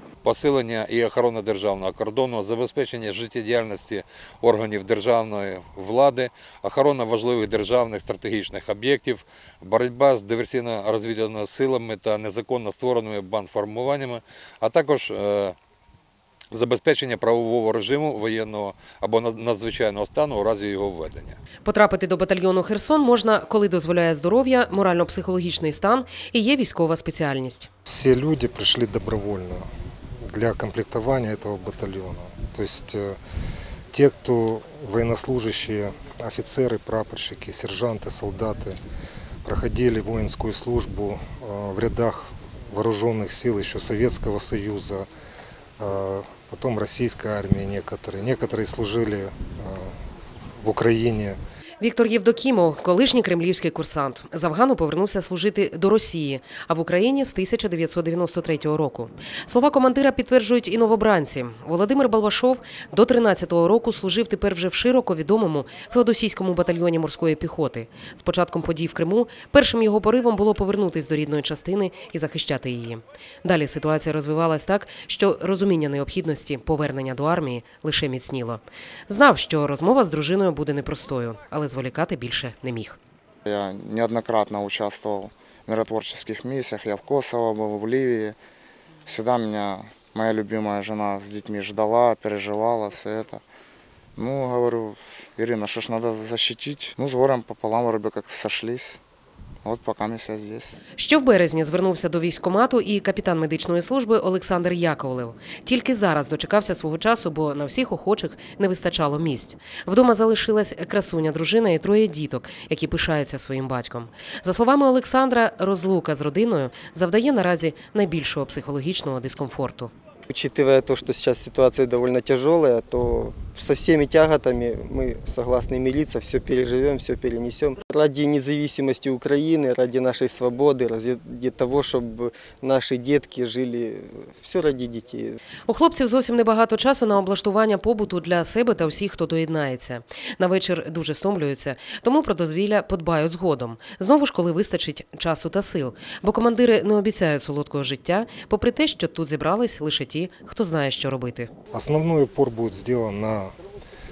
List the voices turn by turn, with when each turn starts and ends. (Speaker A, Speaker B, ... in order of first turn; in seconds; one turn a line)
Speaker A: 0.2-15.6
Speaker A: 16.5-21.4
Speaker B: 21.6-27.7
Speaker C: 27.9-29.6
Speaker C: 30.2-33.2
Speaker C: 33.9-38.8
Speaker C: 39.4-45.1
Speaker C: 45.8-50.0
Speaker C: 50.6-51.4
Speaker B: 51.8-83.0
Speaker D: 83.5-88.4
Speaker D: 89.0-93.4
Speaker D: 94.2-99.0
Speaker D: 99.6-100.8
Speaker B: 101.0-119.9
Speaker E: 120.3-135.4
Speaker B: 135.7-151.5
Speaker C: 151.7-153.5